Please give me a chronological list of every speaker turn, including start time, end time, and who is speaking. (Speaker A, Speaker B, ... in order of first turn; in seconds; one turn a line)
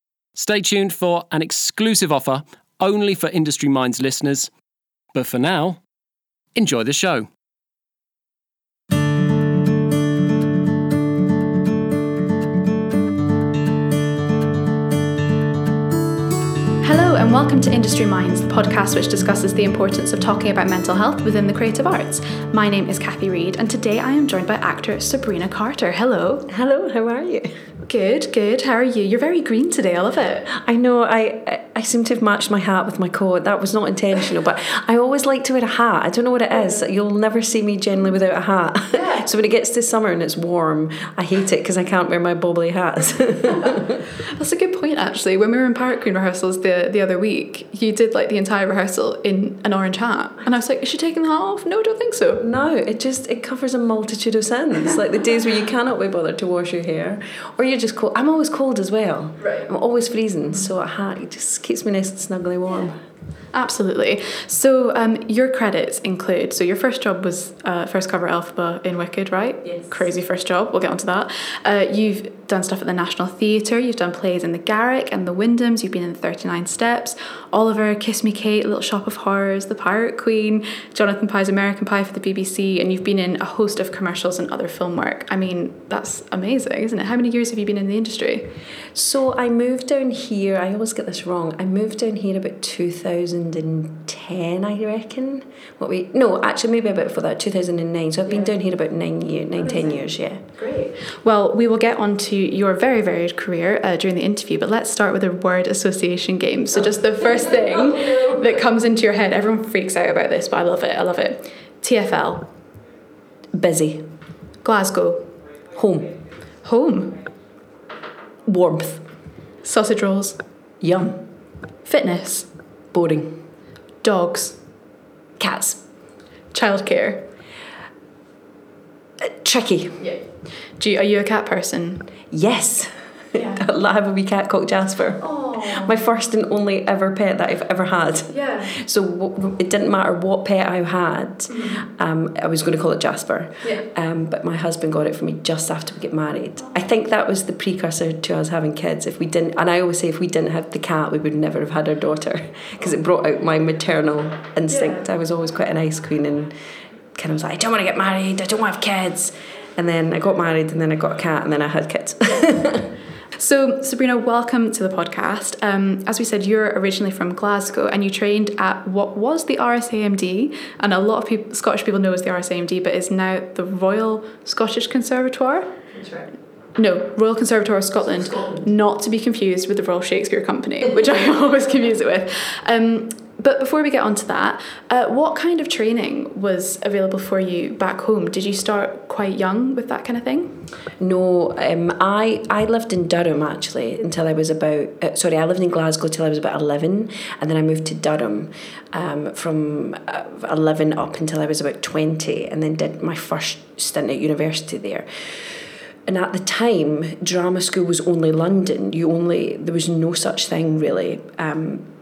Speaker A: 0.3-4.5
Speaker A: 5.1-5.8
Speaker A: 6.5-7.3
Speaker B: 16.8-26.5
Speaker C: 26.5-27.5
Speaker B: 27.8-30.5
Speaker C: 30.5-44.0
Speaker B: 38.9-39.2
Speaker B: 44.3-52.4
Speaker C: 52.4-63.0
Speaker B: 59.4-59.7
Speaker B: 63.5-88.5
Speaker C: 88.9-100.4
Speaker B: 98.2-98.5
Speaker B: 99.5-112.5
Speaker C: 113.5-114.1
Speaker B: 114.6-115.3
Speaker C: 115.7-116.1
Speaker B: 116.6-117.3
Speaker C: 118.5-119.1
Speaker B: 119.6-120.4
Speaker C: 120.8-121.2
Speaker B: 121.8-122.5
Speaker C: 122.9-123.4
Speaker B: 124.0-124.6
Speaker C: 125.4-125.8
Speaker B: 126.5-127.3
Speaker C: 129.2-130.0
Speaker B: 130.0-132.1
Speaker C: 132.3-156.5
Speaker B: 133.3-133.6
Speaker B: 135.2-135.9
Speaker B: 138.3-138.7
Speaker B: 141.5-141.9
Speaker B: 143.6-143.9
Speaker B: 154.7-155.0
Speaker C: 157.1-162.9
Speaker B: 163.4-175.8
Speaker B: 176.8-190.7
Speaker C: 191.0-211.9